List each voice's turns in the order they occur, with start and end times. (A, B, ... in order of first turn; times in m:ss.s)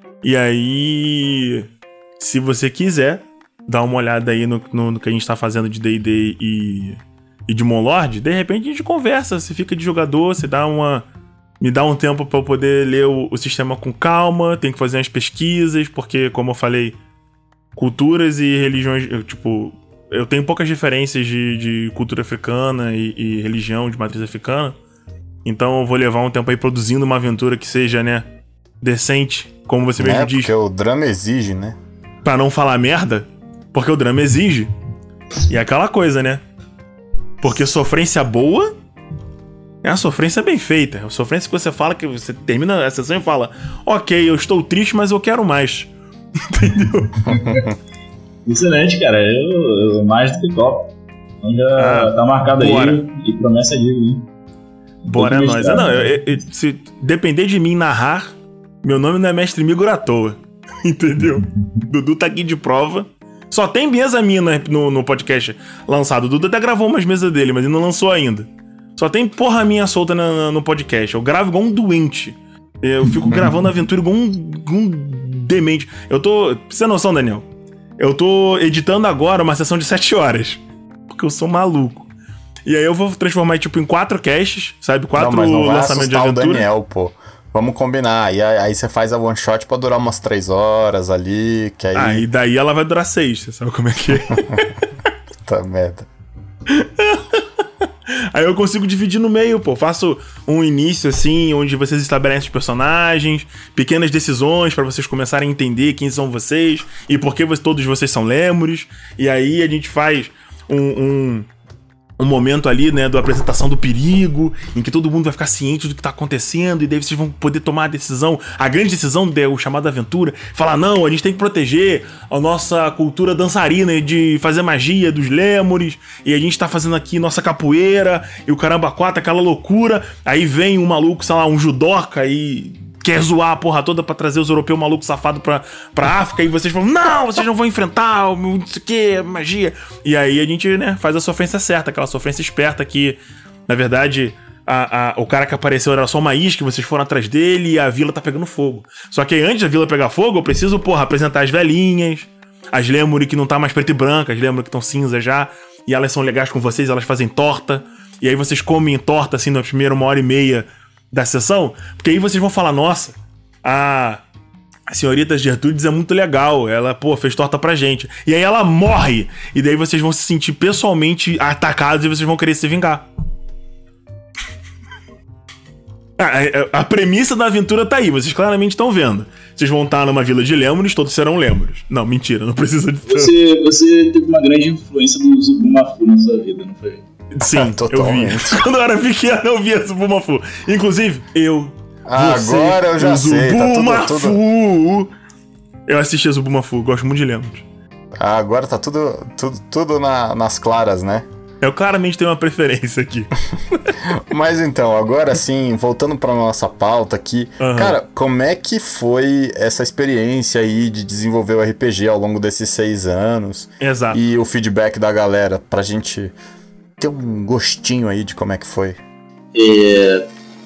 0:00.2-0:01.7 A
0:02.2-0:11.0 A
0:11.6-0:17.0 A
0:17.8-0:24.7 A
0:25.4-0:28.3 A
0:28.8-0:30.5 A
0:30.0-0:31.8 B
0:32.2-0:34.7 A
0:35.5-0:36.4 A
0:37.4-0:38.7 A
0:39.8-0:45.9 A
0:46.4-0:47.4 A
0:47.2-0:47.6 C
0:48.4-0:54.3 C
0:51.8-0:53.0 A
0:55.0-0:56.4 C
0:55.1-1:17.5 A
1:01.4-1:01.8 C
1:18.0-1:22.1 A
1:22.6-1:26.6 A
1:25.1-1:32.2 B
1:31.9-1:34.7 A
1:34.3-1:34.6 B
1:35.4-1:36.1 B
1:36.7-1:37.4 A
1:38.3-1:51.5 A
1:52.2-2:44.2 A
2:44.9-2:53.0 A
2:56.2-3:03.3 A
3:03.0-3:07.0 C
3:07.3-3:15.1 A
3:07.4-3:08.6 B
3:12.1-3:14.4 B
3:15.9-3:17.6 A
3:18.2-3:21.2 B
3:21.6-3:23.9 A
3:24.0-3:36.3 B
3:27.6-3:28.0 A
3:33.8-3:34.2 A
3:37.0-3:39.0 B
3:39.5-3:40.3 C